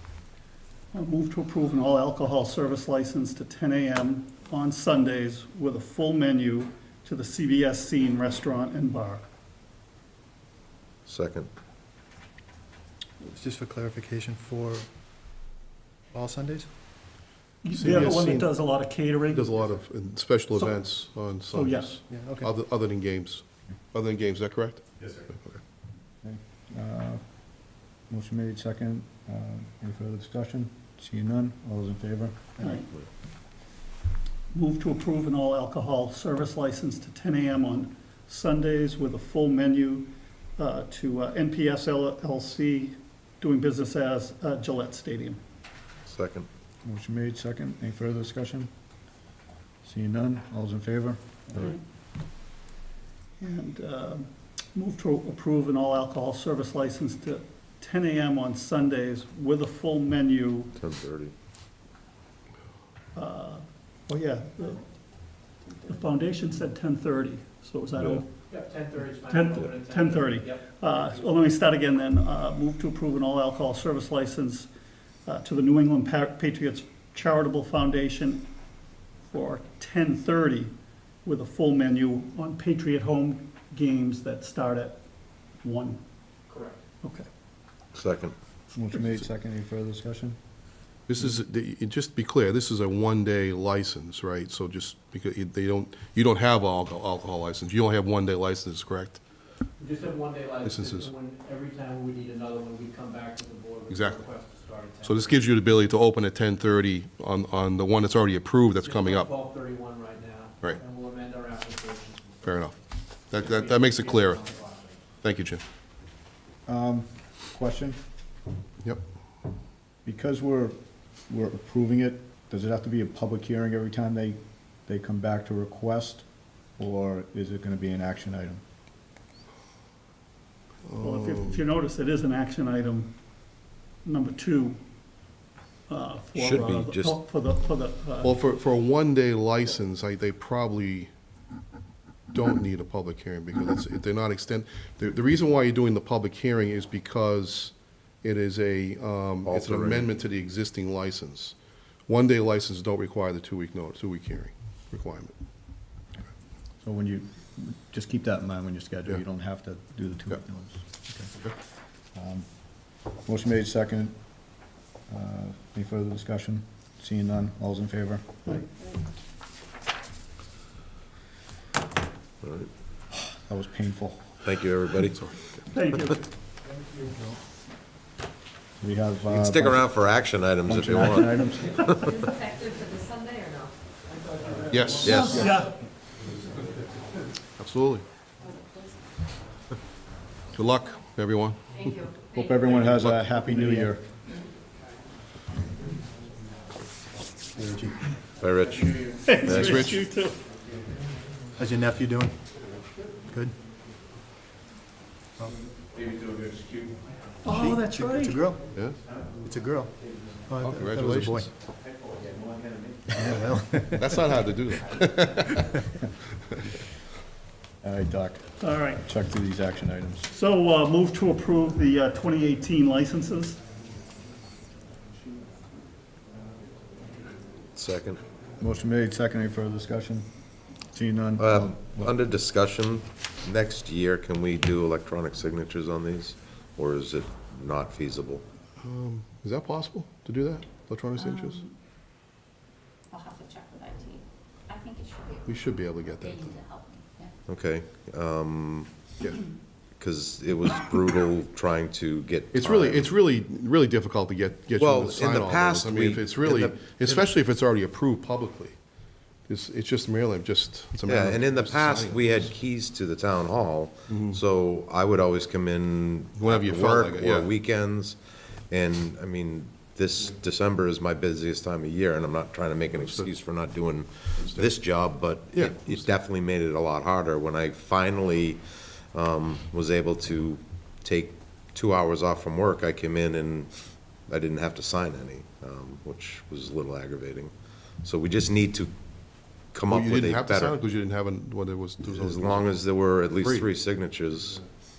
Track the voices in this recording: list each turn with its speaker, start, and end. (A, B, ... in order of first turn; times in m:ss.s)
0:00.9-0:09.2 A
0:11.0-0:11.5 B
0:13.2-0:14.9 C
0:16.1-0:16.7 C
0:17.6-0:19.5 A
0:17.7-0:25.6 D
0:21.5-0:22.0 A
0:22.1-0:22.5 C
0:26.2-0:27.2 E
0:28.1-0:32.4 E
0:32.6-0:32.9 A
0:34.5-0:45.4 A
0:46.1-0:46.5 B
0:46.8-0:48.7 E
0:49.8-0:51.8 E
0:53.4-1:00.7 A
1:00.8-1:01.3 B
1:03.1-1:08.3 A
1:08.0-1:08.2 B
1:08.5-1:10.6 F
1:09.2-1:14.7 A
1:15.2-1:18.5 A
1:19.3-1:20.7 A
1:21.2-1:25.0 A
1:25.6-1:26.0 A
1:26.5-1:26.8 F
1:27.0-1:27.3 A
1:27.9-1:28.3 B
1:28.7-1:30.4 E
1:31.1-1:39.2 D
1:39.8-1:45.4 F
1:40.6-1:41.1 D
1:43.9-1:44.3 D
1:45.0-1:49.3 D
1:48.8-1:52.7 F
1:52.4-1:52.8 D
1:53.3-1:54.4 D
1:53.3-1:55.0 F
1:55.2-1:55.6 D
1:56.7-1:58.0 E
2:00.0-2:00.8 E
2:01.3-2:06.2 E
2:06.8-2:08.6 E
2:10.8-2:11.6 D
2:11.0-2:13.1 A
2:14.0-2:14.8 A
2:15.9-2:18.4 A
2:16.4-2:17.2 B
2:18.2-2:21.1 D
2:22.3-2:31.6 D
2:29.4-2:30.1 B
2:32.1-2:35.3 D
2:36.8-2:41.3 E
2:42.1-2:42.5 E
2:43.2-2:44.2 E
2:45.1-2:48.6 E
2:52.4-2:52.7 B
2:53.5-2:54.4 E
2:54.4-2:55.5 B
2:55.7-2:56.2 A
2:58.8-2:59.9 E
2:59.3-3:02.1 B
3:00.6-3:02.0 E
3:02.7-3:03.6 G
3:04.7-3:05.3 D
3:05.0-3:05.5 B
3:05.2-3:05.7 A
3:07.6-3:08.0 D
3:10.5-3:11.6 D
3:12.2-3:14.0 E
3:12.8-3:13.2 D
3:17.6-3:18.0 C
3:18.4-3:19.8 B
3:18.8-3:19.9 F
3:19.2-3:20.4 A
3:19.5-3:20.0 D
3:21.6-3:22.3 C
3:23.3-3:23.5 C
3:25.9-3:27.0 F
3:27.4-3:28.4 A
3:27.4-3:28.6 C
3:29.4-3:29.9 C
3:30.4-3:31.5 C
3:30.6-3:31.4 D
3:33.2-3:34.2 C
3:33.9-3:35.7 D
3:37.8-3:40.3 E
3:38.6-3:39.1 A
3:40.3-3:43.6 A
3:47.7-3:48.2 B
3:48.6-3:50.3 E
3:50.9-3:52.1 E
3:51.4-3:58.4 B
3:58.8-4:01.6 D
4:03.1-4:05.4 G
4:05.4-4:06.6 D
4:06.4-4:07.3 G
4:07.5-4:08.9 B
4:10.0-4:13.1 B
4:12.5-4:18.8 D
4:14.8-4:17.3 B
4:19.5-4:22.4 D
4:21.0-4:43.7 B
4:24.1-4:24.4 D
4:26.4-4:27.5 D
4:33.0-4:33.3 D
4:34.4-4:34.7 D
4:35.5-4:36.1 D
4:44.3-4:48.9 B
4:49.7-4:50.8 B
4:49.9-4:53.7 D
4:52.1-4:54.6 B